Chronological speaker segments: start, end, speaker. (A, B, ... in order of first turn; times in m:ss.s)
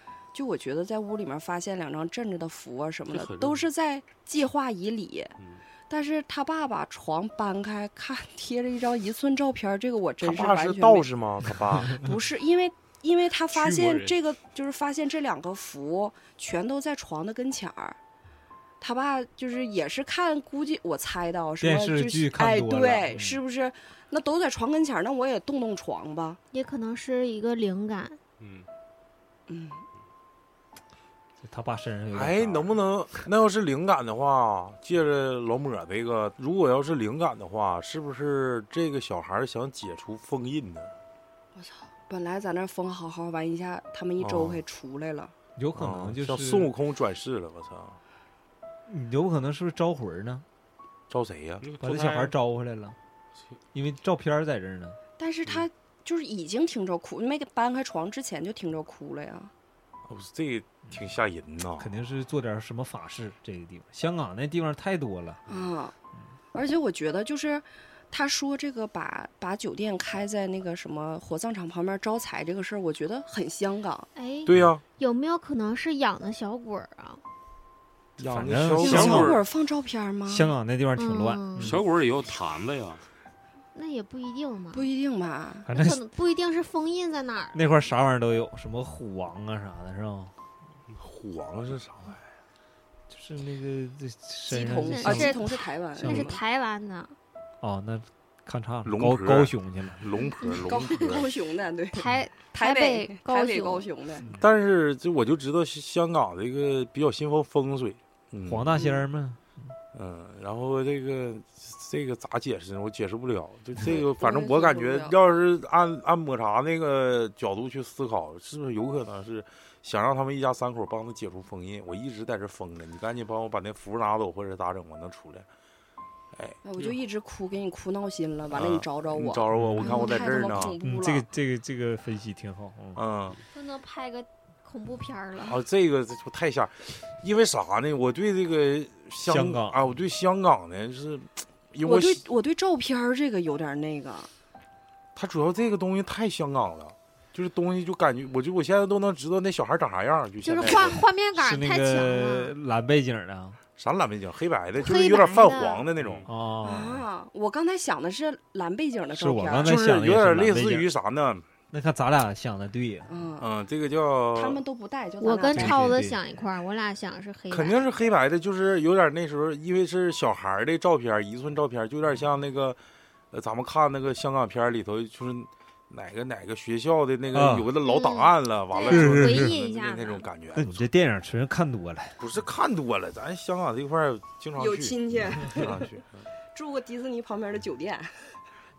0:00.3-0:05.3 A
0:03.1-0:03.7 B
0:05.4-0:05.6 B
0:05.9-0:11.0 A
0:10.2-0:12.1 C
0:11.9-0:18.0 A
0:13.5-0:14.2 B
0:18.8-0:26.4 A
0:21.6-0:23.3 D
0:26.5-0:28.2 E
0:28.4-0:28.7 B
0:29.5-0:29.8 A
0:31.4-0:32.7 D
0:32.1-0:40.9 C
0:41.5-0:45.3 A
0:44.2-0:44.6 C
0:45.6-0:46.7 D
0:45.8-0:48.0 C
0:48.9-0:50.4 D
0:51.1-0:51.6 C
0:51.6-0:52.3 B
0:51.8-0:53.0 D
0:53.7-0:55.0 D
0:55.2-0:59.5 A
1:00.0-1:01.9 C
1:01.8-1:05.4 D
1:05.5-1:05.9 A
1:06.5-1:14.1 A
1:14.2-1:17.2 E
1:14.4-1:14.8 C
1:18.2-1:19.4 C
1:18.3-1:19.3 D
1:18.8-1:20.5 A
1:18.9-1:19.3 B
1:20.3-1:21.8 D
1:21.0-1:21.8 E
1:21.6-1:23.0 B
1:23.7-1:24.9 E
1:24.7-1:25.7 A
1:25.7-1:26.0 D
1:25.7-1:27.6 E
1:27.5-1:30.3 D
1:31.0-1:32.2 C
1:33.1-1:35.4 D
1:34.5-1:37.1 E
1:34.5-1:36.4 A
1:36.0-1:36.4 D
1:37.6-1:40.0 D
1:38.8-1:41.3 C
1:40.6-1:44.3 A
1:41.9-1:43.9 E
1:44.3-1:48.9 C
1:48.4-1:49.5 D
1:49.9-2:05.5 C
1:53.8-1:55.2 A
2:06.3-2:06.6 C
2:06.6-2:11.2 A
2:08.5-2:10.8 C
2:09.5-2:09.9 D
2:09.8-2:10.4 E
2:10.8-2:13.0 D
2:12.9-2:13.4 C
2:13.5-2:15.6 E
2:15.4-2:22.2 C
2:19.2-2:19.8 D
2:21.8-2:24.3 A
2:25.1-2:31.0 C
2:30.4-2:32.5 E
2:31.4-2:33.6 D
2:33.8-2:36.3 C
2:34.8-2:35.8 E
2:36.0-2:36.3 B
2:36.3-2:37.0 D
2:36.6-2:39.8 A
2:39.1-2:40.9 D
2:39.6-2:41.4 C
2:41.7-2:43.1 D
2:43.1-2:43.5 A
2:43.4-2:44.6 C
2:44.3-2:45.9 A
2:45.2-2:47.8 E
2:45.5-2:46.2 D
2:47.5-2:52.8 C
2:53.3-3:00.9 C
2:57.3-2:57.7 D
2:57.8-3:00.2 E
2:58.9-2:59.5 D
3:00.5-3:02.2 D
3:02.2-3:06.3 C
3:04.6-3:05.9 A
3:06.5-3:08.3 A